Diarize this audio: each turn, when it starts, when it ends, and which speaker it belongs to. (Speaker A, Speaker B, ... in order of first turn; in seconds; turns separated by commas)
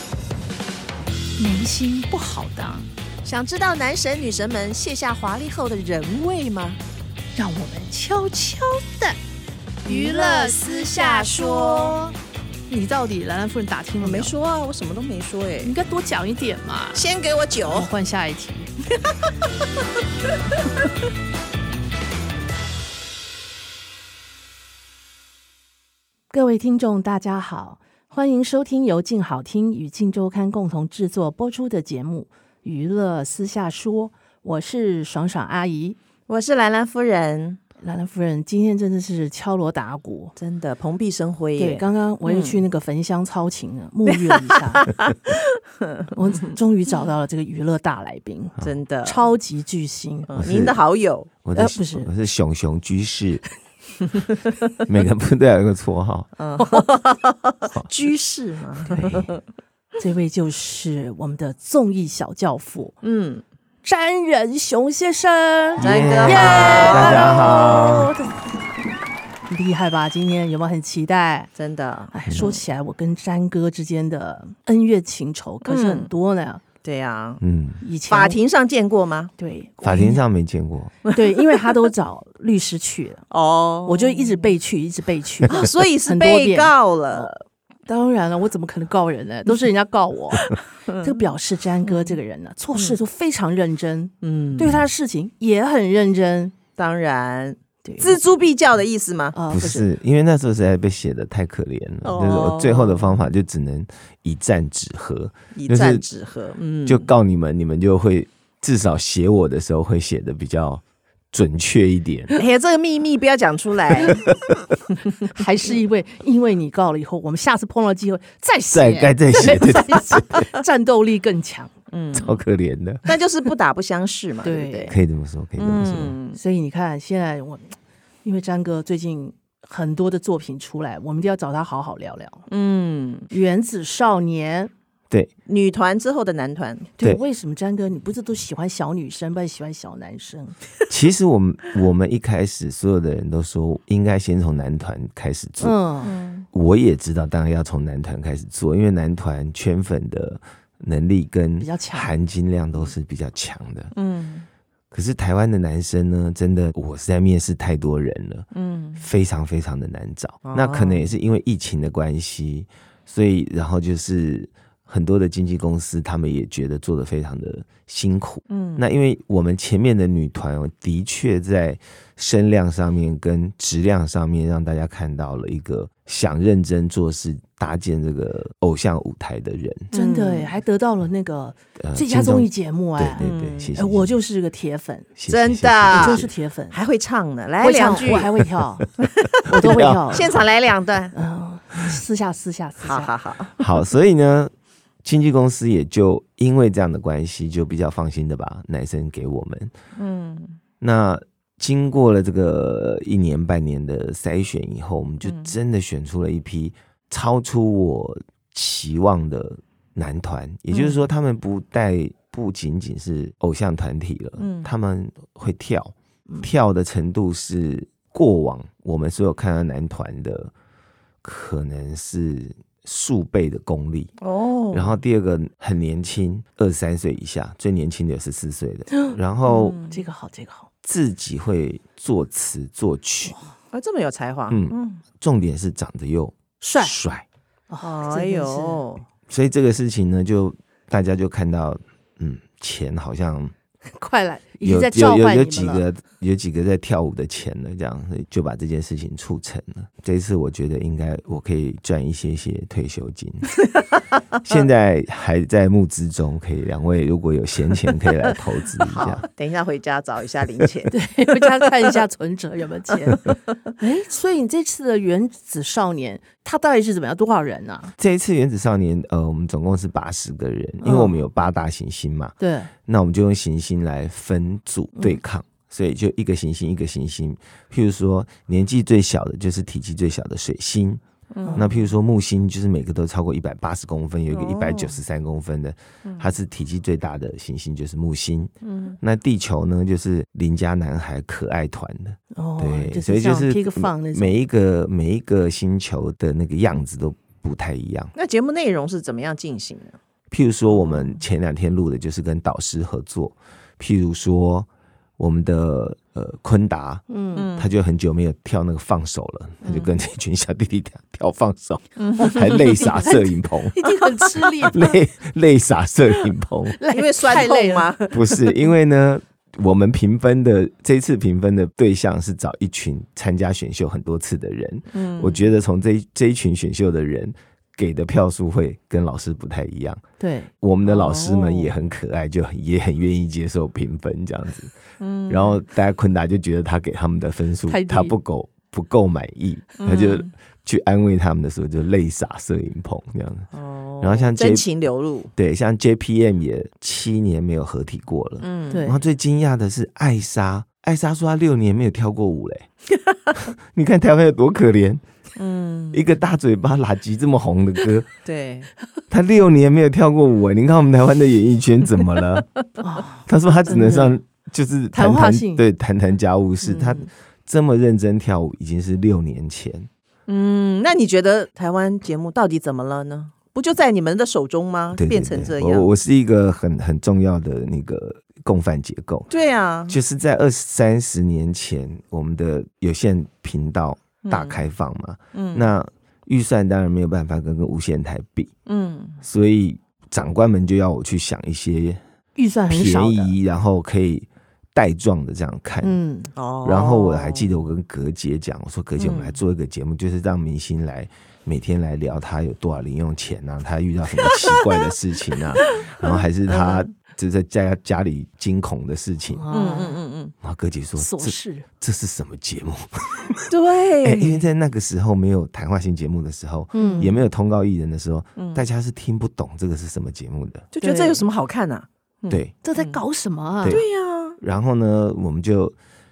Speaker A: 1.4-2.9, Speaker B: 3.2-6.8, Speaker A: 7.3-9.2, Speaker A: 9.8-12.1, Speaker B: 9.8-12.1, Speaker A: 12.7-14.3, Speaker B: 14.0-15.7, Speaker A: 15.6-17.1, Speaker B: 16.9-17.9, Speaker A: 17.7-18.7, Speaker A: 26.3-36.0, Speaker B: 36.3-37.6, Speaker A: 37.8-40.3, Speaker B: 40.4-42.6, Speaker A: 41.6-44.9, Speaker B: 44.1-46.4, Speaker A: 46.1-50.3, Speaker B: 48.6-49.2, Speaker B: 50.3-51.3, Speaker C: 50.4-50.8, Speaker C: 51.4-53.4, Speaker A: 51.5-52.1, Speaker C: 54.9-56.3, Speaker B: 56.4-59.3, Speaker A: 56.6-56.9, Speaker A: 58.9-59.3, Speaker A: 60.0-62.9, Speaker B: 63.0-63.4, Speaker A: 63.8-67.5, Speaker C: 65.8-68.1, Speaker B: 65.8-68.2, Speaker A: 69.5-71.5, Speaker B: 71.5-72.5, Speaker A: 72.1-76.6, Speaker B: 75.7-76.1, Speaker B: 76.8-77.4, Speaker C: 77.4-77.8, Speaker A: 77.8-78.4, Speaker B: 78.1-79.3, Speaker A: 79.4-80.2, Speaker C: 79.8-80.9, Speaker B: 81.0-81.5, Speaker A: 81.1-83.2, Speaker B: 83.3-84.5, Speaker A: 83.8-87.3, Speaker B: 85.5-87.3, Speaker A: 87.9-96.5, Speaker B: 90.4-91.2, Speaker B: 91.8-92.2, Speaker B: 94.2-94.8, Speaker B: 96.8-99.3, Speaker A: 97.8-98.2, Speaker A: 99.3-99.9, Speaker C: 99.5-106.0, Speaker B: 102.0-103.2, Speaker B: 105.5-107.1, Speaker C: 106.8-112.3, Speaker B: 112.3-114.2, Speaker C: 114.0-114.7, Speaker A: 115.3-121.7, Speaker C: 118.7-120.5, Speaker B: 119.5-119.9, Speaker B: 121.9-122.4, Speaker C: 122.2-123.1, Speaker B: 123.0-125.0, Speaker A: 124.4-124.9, Speaker C: 124.9-126.2, Speaker B: 125.6-126.4, Speaker A: 126.3-132.4, Speaker B: 132.5-133.3, Speaker A: 133.3-134.7, Speaker B: 135.4-136.9, Speaker A: 137.0-140.6, Speaker C: 140.9-145.8, Speaker A: 145.6-146.1, Speaker B: 146.0-146.4, Speaker C: 146.5-153.9, Speaker A: 151.6-152.1, Speaker B: 153.9-154.4, Speaker C: 154.9-158.4, Speaker B: 158.5-159.1, Speaker C: 159.0-179.9, Speaker B: 160.4-161.1, Speaker B: 168.5-168.8, Speaker B: 179.9-180.5, Speaker A: 179.9-183.2, Speaker C: 181.8-184.2, Speaker B: 183.2-183.8, Speaker A: 183.8-185.1, Speaker C: 185.2-186.3, Speaker B: 185.3-188.3, Speaker A: 185.9-186.7, Speaker A: 187.6-188.9, Speaker B: 189.2-191.1, Speaker C: 189.4-190.4, Speaker A: 189.5-190.4, Speaker A: 191.1-193.1, Speaker B: 192.8-193.6, Speaker C: 193.6-194.5, Speaker C: 195.0-199.7, Speaker B: 199.9-200.6, Speaker C: 200.8-220.5, Speaker B: 205.2-205.5, Speaker B: 214.4-214.7, Speaker C: 221.2-224.1, Speaker B: 224.2-225.0, Speaker C: 224.7-229.8, Speaker A: 228.9-229.2, Speaker B: 229.4-230.0, Speaker A: 229.8-230.7, Speaker C: 230.8-233.3, Speaker B: 233.7-235.0, Speaker C: 234.5-237.2, Speaker A: 236.6-237.0, Speaker A: 237.7-238.8, Speaker B: 237.8-239.0, Speaker C: 239.3-243.5, Speaker A: 244.0-245.8, Speaker C: 244.6-253.5, Speaker C: 254.4-259.2, Speaker B: 258.8-261.7, Speaker A: 260.9-267.9, Speaker C: 268.0-281.0, Speaker A: 270.8-271.1, Speaker A: 272.4-272.7, Speaker B: 281.3-281.6, Speaker A: 281.4-281.8, Speaker C: 281.5-298.1, Speaker B: 284.4-284.8, Speaker B: 286.0-286.3, Speaker B: 288.6-289.0, Speaker A: 292.3-294.3, Speaker B: 298.1-300.0, Speaker C: 300.3-313.8, Speaker A: 300.7-301.0, Speaker A: 307.1-307.5, Speaker B: 307.3-307.7, Speaker B: 309.6-309.9, Speaker B: 312.0-313.0, Speaker A: 312.2-314.8, Speaker B: 313.8-314.6, Speaker C: 314.7-316.8, Speaker A: 316.8-317.9, Speaker B: 316.9-318.2, Speaker C: 318.1-330.0, Speaker B: 324.9-325.5, Speaker A: 330.2-330.5, Speaker C: 330.6-334.7, Speaker B: 330.8-331.7, Speaker B: 335.0-335.6, Speaker C: 335.3-343.5, Speaker A: 337.6-338.1, Speaker B: 339.8-340.3, Speaker B: 343.5-345.3, Speaker C: 344.0-344.6, Speaker C: 345.4-352.7, Speaker B: 348.4-348.9, Speaker A: 348.7-349.0, Speaker C: 353.4-355.0, Speaker B: 355.4-356.0, Speaker C: 355.9-358.1, Speaker B: 358.2-358.7, Speaker C: 359.1-362.4, Speaker A: 362.8-364.1, Speaker C: 363.2-369.9, Speaker A: 364.9-365.6, Speaker B: 366.6-367.0, Speaker B: 370.3-375.9, Speaker C: 374.9-379.3, Speaker B: 379.3-380.0, Speaker C: 379.9-388.5, Speaker B: 384.2-384.6, Speaker B: 385.3-385.7, Speaker B: 388.6-389.2, Speaker C: 389.2-392.0, Speaker A: 392.4-393.4, Speaker C: 392.7-396.0, Speaker A: 395.8-396.3, Speaker B: 396.4-397.5, Speaker C: 396.6-409.4, Speaker B: 399.0-399.4, Speaker B: 405.6-406.9, Speaker A: 409.3-410.0, Speaker B: 409.5-410.3, Speaker C: 410.4-413.5, Speaker A: 411.0-411.6, Speaker B: 413.5-414.4, Speaker C: 414.0-420.7, Speaker A: 416.7-417.1, Speaker B: 416.8-417.2, Speaker B: 418.4-418.6, Speaker B: 420.7-423.0, Speaker A: 420.8-421.2, Speaker A: 422.6-423.8, Speaker B: 423.6-424.4, Speaker C: 424.4-425.7